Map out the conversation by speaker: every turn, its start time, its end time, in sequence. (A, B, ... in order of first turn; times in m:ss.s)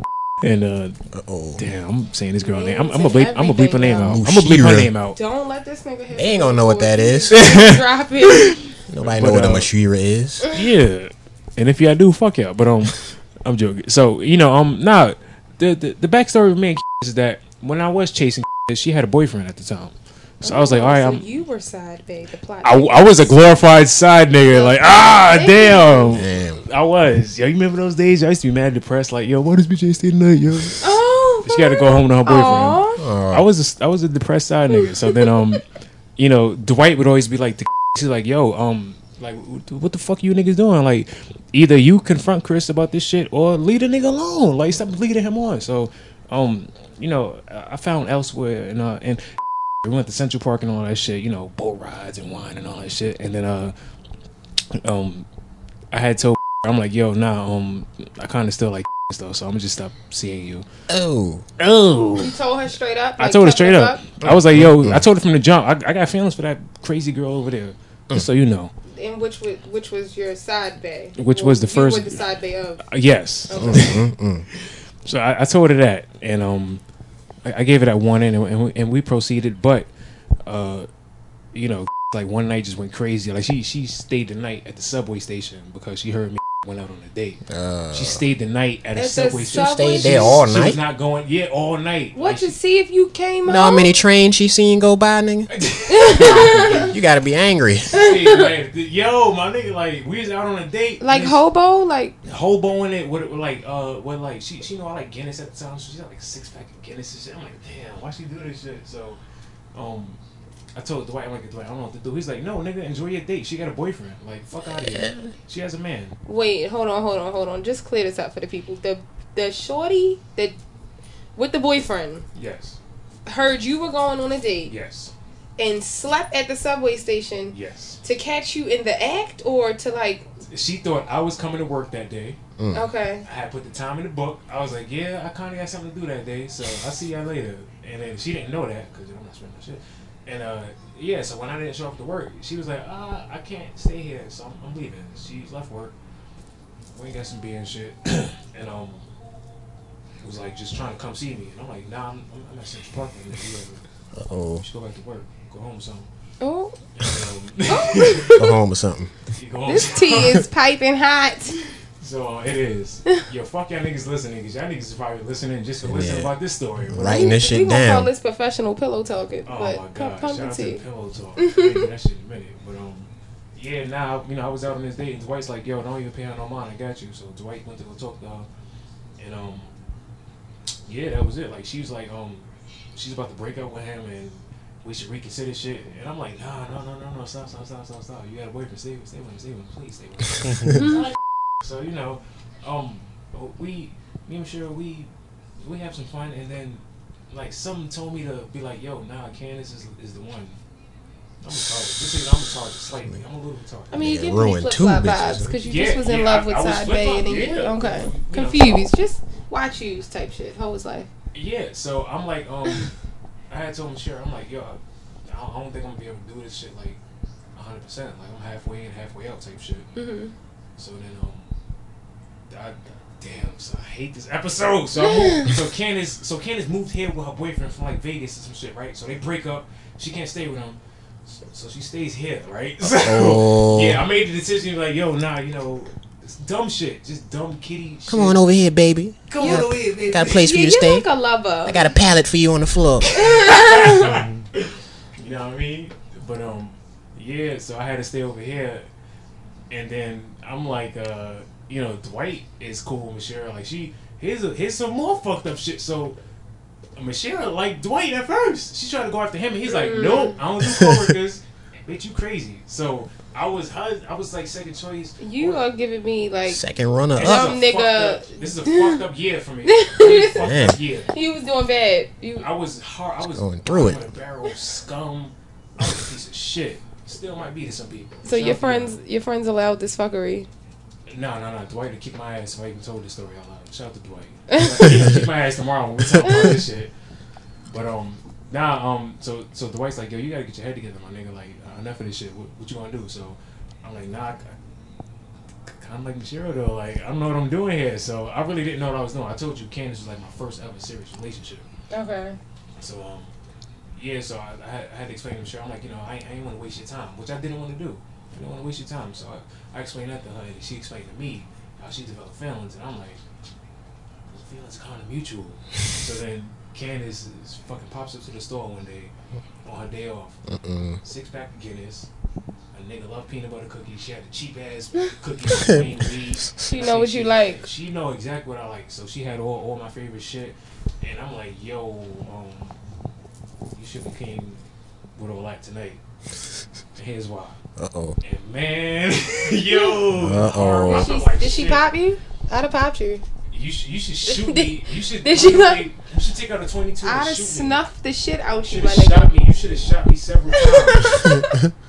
0:00.4-0:01.0 A
0:01.1-0:01.6 B
0:01.6-0:05.2 A
0:02.4-0:04.2 C
0:04.0-0:04.9 B
0:05.1-0:08.6 C
0:06.1-0:07.4 B
0:07.3-0:09.7 A
0:08.9-0:10.4 B
0:10.5-0:21.2 A
0:20.4-0:23.3 C
0:22.6-0:35.6 A
0:24.5-0:26.1 C
0:26.1-0:26.6 B
0:30.8-0:33.0 C
0:33.0-0:33.4 B
0:34.8-0:35.3 C
0:36.2-0:53.7 A
0:54.8-0:55.3 A
0:55.9-1:00.6 A
1:00.9-1:01.4 B
1:01.6-1:02.3 A
1:02.2-1:04.0 C
1:03.2-1:08.7 A
1:04.2-1:05.0 B
1:08.9-1:12.8 C
1:11.2-1:12.2 A
1:12.8-1:16.8 A
1:13.5-1:14.0 C
1:13.5-1:14.4 B
1:17.4-1:19.9 A
1:20.4-1:20.9 A
1:21.5-1:32.5 A
1:27.5-1:28.2 B
1:29.0-1:30.4 C
1:29.5-1:30.8 B
1:32.1-1:33.9 C
1:33.4-1:35.5 B
1:35.5-1:36.9 A
1:35.9-1:36.9 C
1:36.0-1:37.9 B
1:37.9-1:41.4 A
1:37.9-1:38.4 C
1:41.0-1:42.2 C
1:42.2-1:49.2 A
1:49.7-1:50.2 A
1:50.7-1:56.2 A
1:54.8-1:55.3 B
1:56.2-2:00.6 C
2:01.4-2:02.2 C
2:02.3-2:02.8 A
2:03.2-2:04.7 C
2:04.7-2:05.1 A
2:05.6-2:10.3 C
2:07.5-2:08.0 A
2:10.5-2:12.4 A
2:12.6-2:12.8 B
2:12.7-2:13.2 C
2:13.2-2:25.9 A
2:26.9-2:29.0 A
2:30.2-2:33.8 A
2:34.1-2:34.6 B
2:34.6-2:36.1 A
2:36.4-2:36.8 C
2:37.0-2:38.5 A
2:37.7-2:38.5 C
2:38.3-2:39.1 B
2:39.3-2:40.4 A
2:39.7-2:41.6 C
2:42.0-2:47.3 A
2:45.8-2:46.3 B
2:46.9-2:48.1 B
2:47.0-2:50.8 C
2:49.4-2:58.5 A
2:51.4-2:51.8 C
2:59.2-2:59.7 A
3:00.8-3:20.6 A
3:10.7-3:11.0 C
3:21.4-3:24.0 A
3:23.9-3:31.1 C
3:23.9-3:25.5 B
3:25.5-3:28.9 A
3:31.3-3:32.9 A
3:33.5-3:37.0 A
3:37.5-3:39.9 A
3:39.9-3:40.3 C
3:40.8-3:41.5 A
3:42.5-3:58.4 A
3:45.0-3:45.5 C
3:52.8-3:54.0 B
3:58.1-4:01.0 B
3:59.3-4:00.4 A
3:59.4-3:59.7 C
4:00.2-4:01.9 C
4:01.6-4:03.1 B
4:03.0-4:08.8 A
4:03.1-4:04.2 C
4:09.7-4:16.2 A
4:17.0-4:25.6 A
4:19.7-4:20.4 C
4:20.6-4:21.1 B
4:25.2-4:26.6 C
4:26.5-4:27.5 B
4:27.1-4:31.1 A
4:27.2-4:29.0 C
4:29.6-4:30.5 C
4:30.3-4:30.8 B
4:31.1-4:32.5 C
4:32.4-4:39.0 A
4:33.4-4:34.0 B
4:38.2-4:40.5 C
4:41.1-4:46.9 A
4:46.2-4:46.6 C
4:47.7-4:54.5 A
4:55.7-5:01.6 A
5:01.9-5:02.4 C
5:02.8-5:03.3 A
5:03.9-5:13.2 A
5:14.3-5:19.1 A
5:19.6-5:20.4 A
5:20.5-5:21.0 B
5:21.0-5:22.1 A
5:22.7-5:32.8 A
5:25.5-5:25.8 B
5:26.6-5:27.6 C
5:33.7-5:34.6 A
5:35.2-5:36.0 A
5:37.0-5:37.6 A
5:37.8-5:38.2 B
5:38.2-5:41.8 A
5:39.7-5:40.0 C
5:40.1-5:41.1 B
5:40.8-5:43.2 C
5:43.5-5:47.8 A
5:44.2-5:45.9 C
5:47.0-5:49.4 C
5:48.6-5:51.4 A
5:50.5-5:51.6 C
5:51.4-5:51.7 B